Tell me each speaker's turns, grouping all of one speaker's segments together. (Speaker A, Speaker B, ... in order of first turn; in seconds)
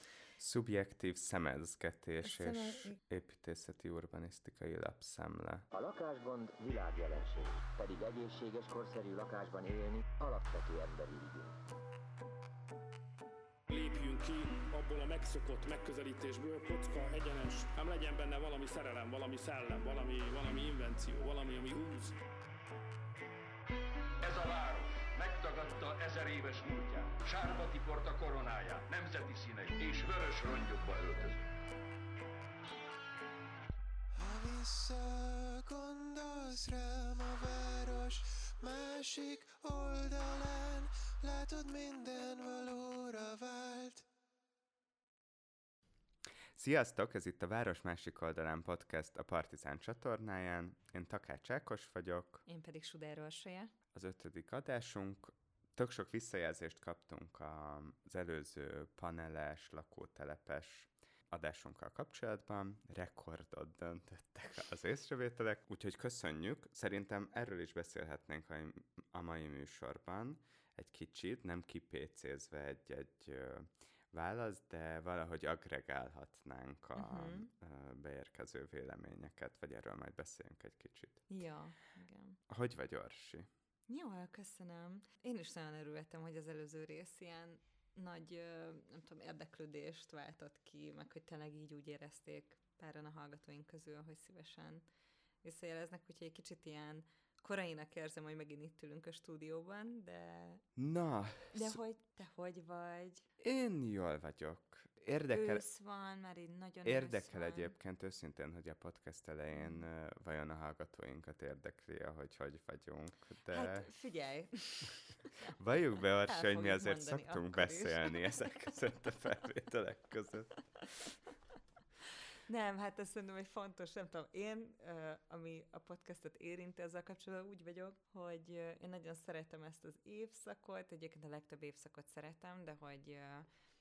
Speaker A: 0.4-5.7, 46.5-52.4, 53.9-81.3, 82.5-83.5, 100.8-101.8, 103.4-105.6, 106.8-113.9, 115.5-120.5
Speaker B: 2.2-3.0, 52.5-53.7, 76.9-77.5, 81.3-82.4, 83.9-94.8, 95.4-100.6, 101.5-103.2, 105.3-107.7, 109.5-109.8, 113.5-115.5, 116.2-118.4, 122.5-133.5
Speaker C: 5.7-11.6
Speaker D: 13.7-22.2
Speaker E: 24.2-31.4
Speaker F: 34.1-44.1